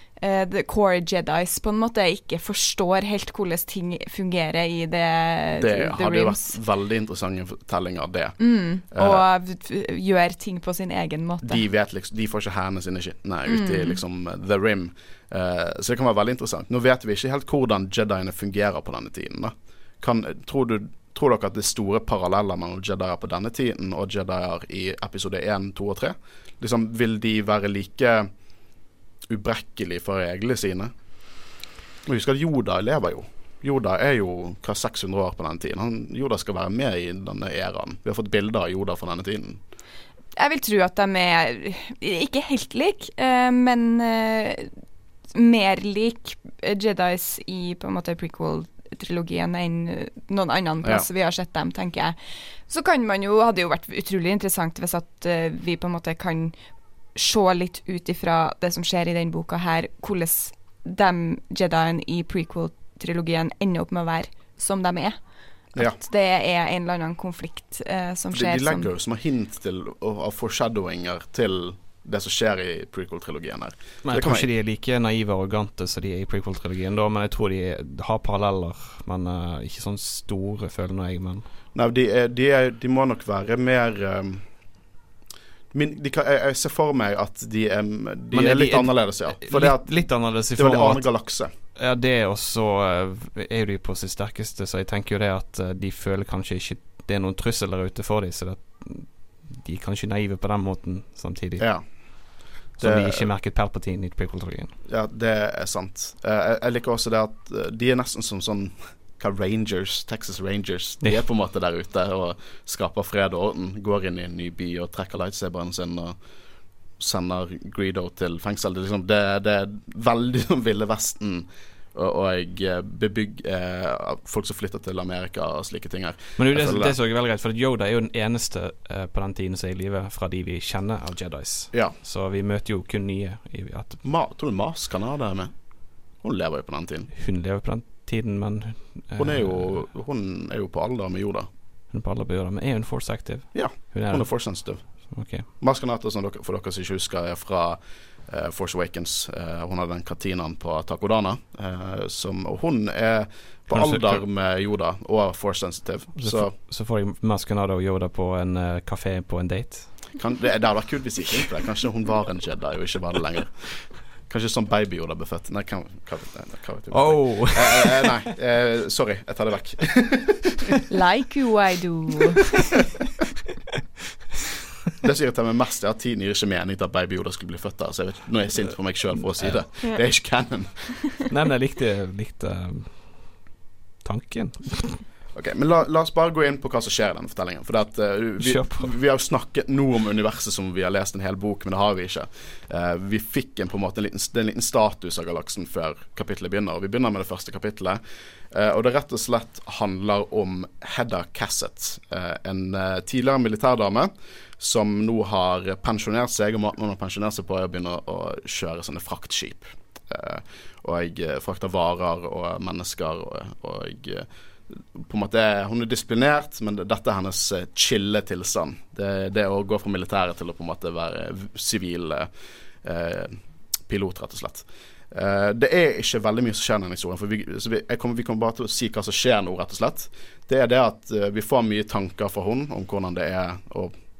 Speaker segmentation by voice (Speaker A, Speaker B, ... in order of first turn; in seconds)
Speaker A: 0.2-6.5, 8.4-11.6, 13.5-14.0, 40.4-44.7, 45.3-56.5, 57.1-65.2, 65.8-68.9, 170.9-172.6
Speaker B: 5.6-9.2, 11.4-28.3, 29.3-30.9, 32.0-39.6, 68.3-74.5, 81.7-84.4, 85.7-90.0, 90.5-91.5, 101.6-101.8, 102.8-103.2, 104.9-116.2, 117.0-126.9, 131.7-132.0, 134.0-135.5, 136.2-137.1, 139.2-141.5, 143.5-144.8, 145.5-156.5, 160.1-170.7, 175.0-181.0, 185.3-198.0, 198.5-222.3, 222.8-233.9
Speaker C: 74.0-81.4, 88.3-91.0, 91.8-101.7, 102.8-104.7, 126.4-134.0, 137.1-139.8, 141.9-145.5, 153.7-154.2, 156.2-160.2, 166.9-168.2, 179.2-179.6, 181.3-183.4, 184.0-185.0, 188.4-188.9